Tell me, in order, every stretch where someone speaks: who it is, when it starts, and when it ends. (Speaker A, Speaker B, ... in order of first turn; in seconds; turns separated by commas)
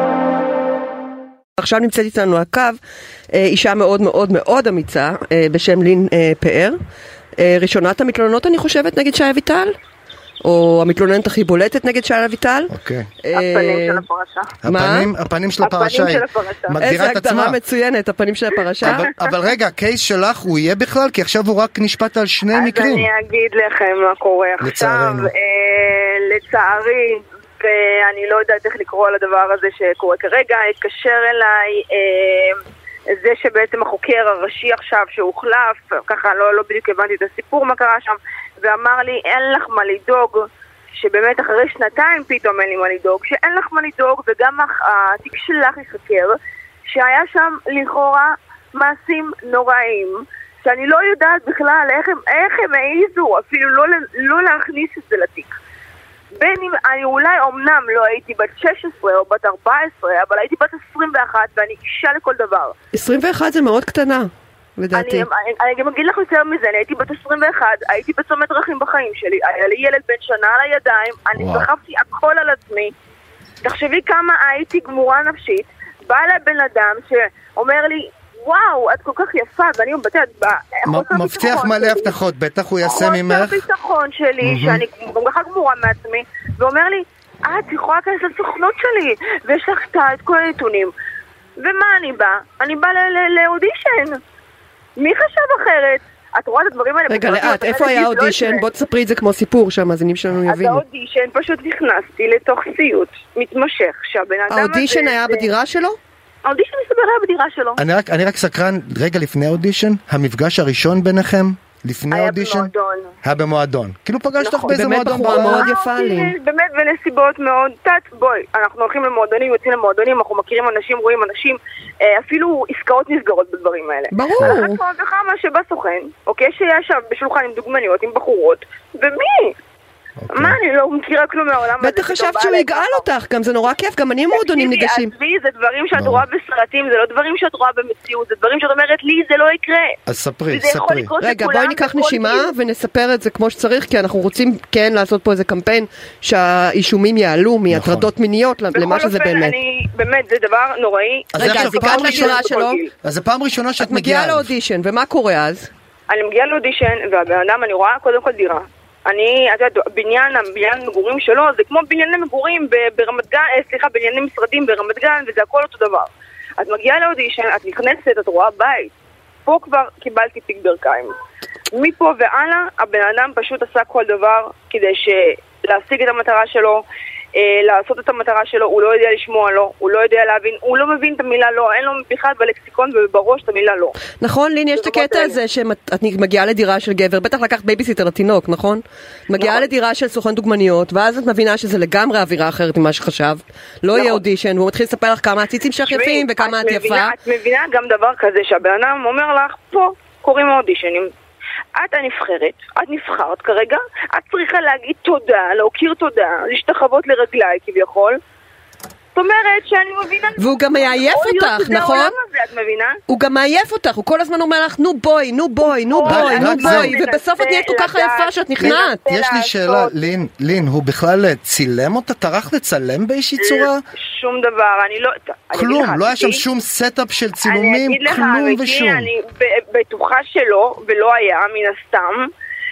Speaker A: 1.6-2.8, Speaker A: 3.3-6.8, Speaker A: 7.4-9.8, Speaker A: 10.4-12.7, Speaker B: 12.7-13.1, Speaker A: 13.2-14.0, Speaker C: 13.3-14.5, Speaker B: 14.6-17.6, Speaker A: 14.6-15.1, Speaker C: 15.6-16.8, Speaker A: 16.8-19.1, Speaker B: 18.8-23.1, Speaker C: 22.5-32.6, Speaker B: 24.6-25.3, Speaker C: 33.1-46.3, Speaker C: 46.9-55.5, Speaker C: 56.4-62.8, Speaker A: 62.9-65.3, Speaker C: 64.9-72.9, Speaker B: 71.3-71.7, Speaker C: 73.6-82.1, Speaker B: 80.8-83.6, Speaker C: 82.8-90.9, Speaker B: 84.4-84.8, Speaker C: 91.6-94.2, Speaker C: 95.0-98.7, Speaker A: 97.1-100.8, Speaker C: 100.5-105.5, Speaker A: 104.5-106.0, Speaker C: 106.4-107.8, Speaker B: 107.8-112.7, Speaker C: 112.1-113.2, Speaker B: 113.2-115.7, Speaker C: 114.4-129.6, Speaker A: 114.7-116.3, Speaker A: 124.1-124.8, Speaker B: 130.2-130.6, Speaker C: 130.3-133.1, Speaker A: 131.8-135.1, Speaker C: 134.3-140.0, Speaker B: 135.9-136.2, Speaker B: 140.1-141.1, Speaker C: 140.5-142.5, Speaker A: 141.2-149.5, Speaker B: 147.7-148.1, Speaker C: 148.7-152.9, Speaker B: 151.3-152.4, Speaker A: 151.3-152.8, Speaker B: 153.0-154.5, Speaker A: 153.8-155.7, Speaker C: 156.1-168.9, Speaker C: 169.4-171.1, Speaker C: 171.7-184.0, Speaker A: 184.2-197.1, Speaker C: 184.7-185.4, Speaker C: 189.4-189.7, Speaker C: 193.9-194.2, Speaker C: 195.9-201.1, Speaker C: 201.7-208.2, Speaker C: 209.1-213.0, Speaker A: 210.4-212.1, Speaker A: 213.1-219.0, Speaker C: 215.7-220.1, Speaker B: 216.1-216.9, Speaker B: 218.6-223.8, Speaker C: 223.4-226.4, Speaker B: 225.5-229.1, Speaker C: 227.4-232.3